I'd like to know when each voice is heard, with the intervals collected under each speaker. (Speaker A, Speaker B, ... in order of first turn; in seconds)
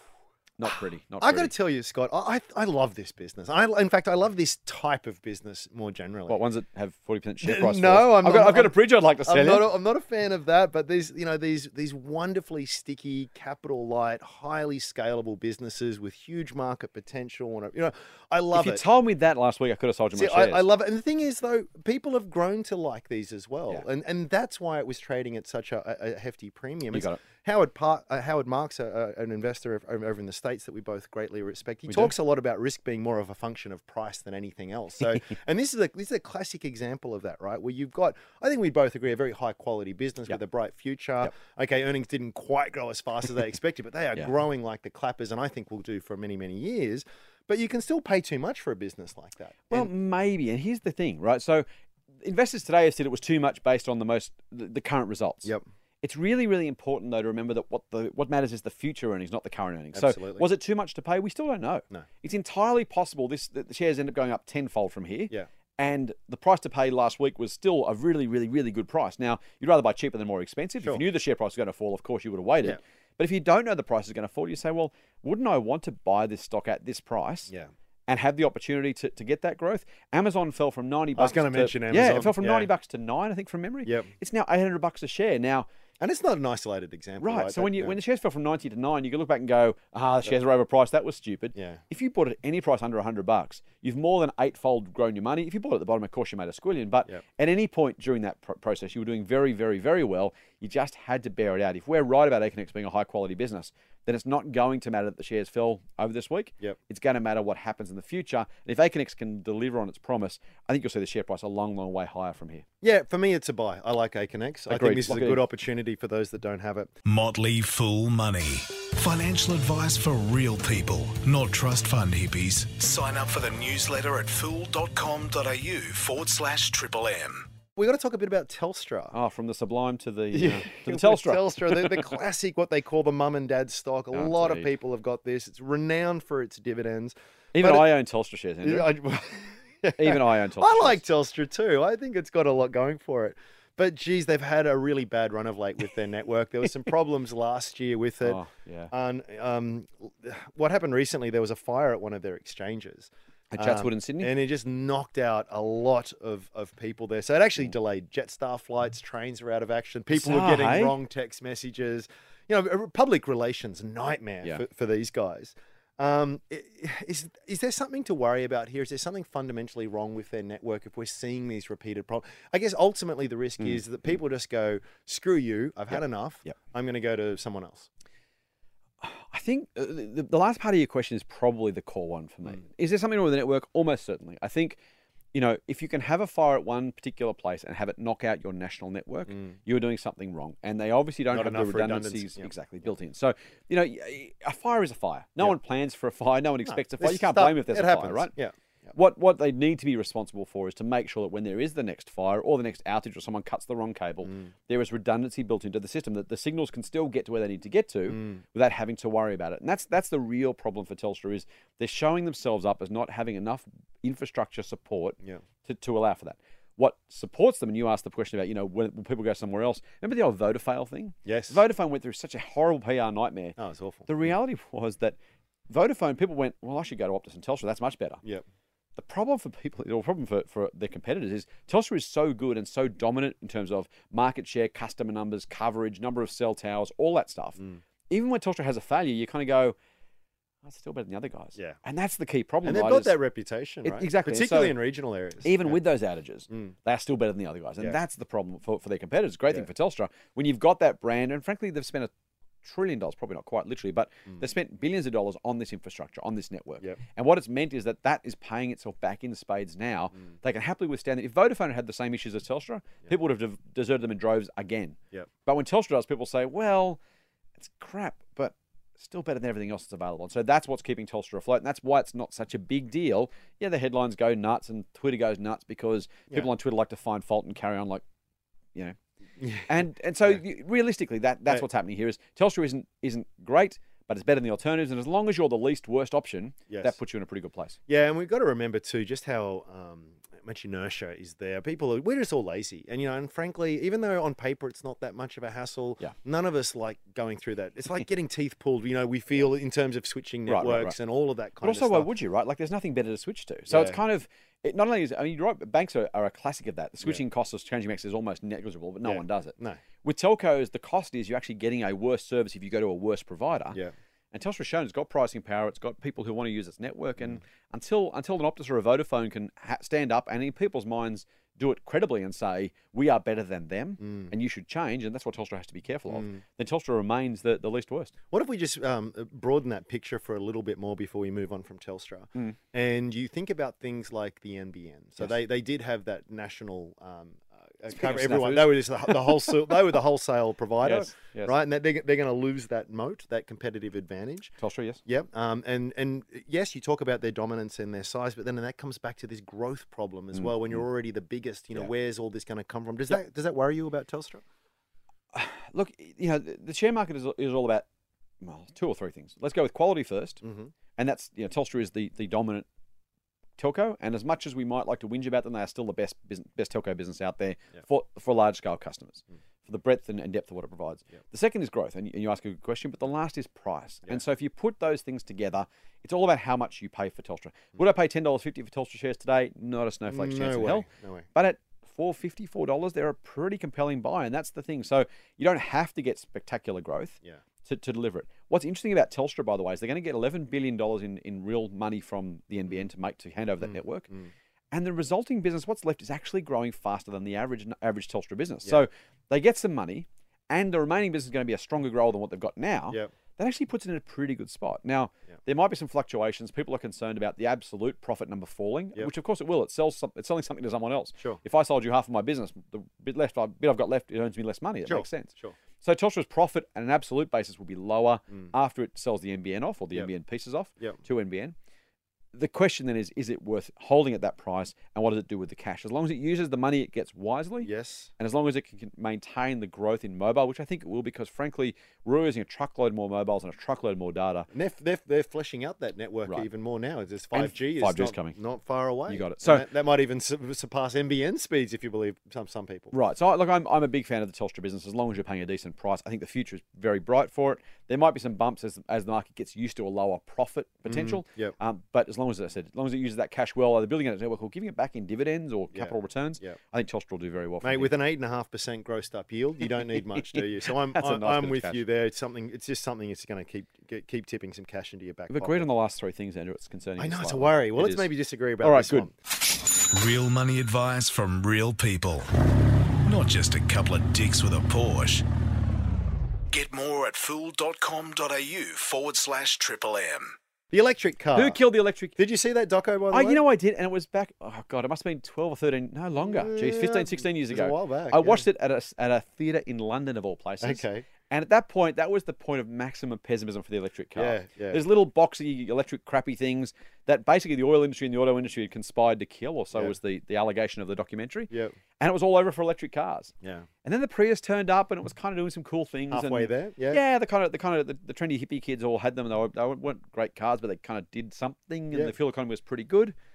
Speaker A: 0.6-1.5, 6.3-9.7, 18.5-20.7, 26.9-27.2, 31.9-32.1, 49.7-51.6, 52.2-77.5, 78.1-85.7, 87.2-112.6, 114.7-115.4, 129.1-132.0, 134.1-134.7, 137.5-138.9, 139.9-141.0, 148.2-148.9, 153.5-154.3, 160.1-161.0, 179.0-184.8, 185.3-198.3, 198.9-225.2, 225.7-228.2, 228.9-239.8, 240.6-243.1, 243.8-244.8, 245.4-252.1, 252.6-267.0, 267.6-278.0, 279.6-287.8, 300.5-300.9, 301.6-313.8, 314.3-328.1, 337.9-339.6, 340.8-341.5, 344.6-345.0, 355.3-357.8, 358.4-360.4, 360.9-362.7, 363.6-394.1, 394.7-421.5, 422.3-434.5, 437.3-438.4, 439.1-439.6, 442.9-457.9, 460.3-461.8, 465.3-468.1, 468.6-469.1, 481.3-482.1, 483.1-503.3, 503.8-513.1
Speaker B: 1.2-6.4, 7.4-18.8, 20.1-49.9, 59.9-60.5, 81.2-82.7, 86.0-88.0, 91.5-91.8, 112.8-116.9, 127.8-129.1, 130.3-137.8, 138.6-177.9, 191.3-192.5, 196.7-198.5, 208.1-208.4, 221.2-221.6, 223.6-224.1, 242.6-245.8, 279.4-279.7, 286.7-286.9, 287.9-302.1, 303.7-304.0, 309.0-309.8, 324.0-324.3, 326.1-326.4, 328.3-344.5, 345.1-354.4, 360.4-360.7, 380.1-381.2, 414.9-415.5, 427.6-428.1, 434.5-442.9, 450.9-451.5, 455.7-456.6, 457.6-465.7, 467.0-469.1, 480.7-481.6, 482.2-483.4, 486.2-488.5, 490.6-491.1, 494.1-494.8, 506.1-507.0
Speaker C: 117.0-127.5, 469.9-472.3, 473.0-475.2, 476.5-480.4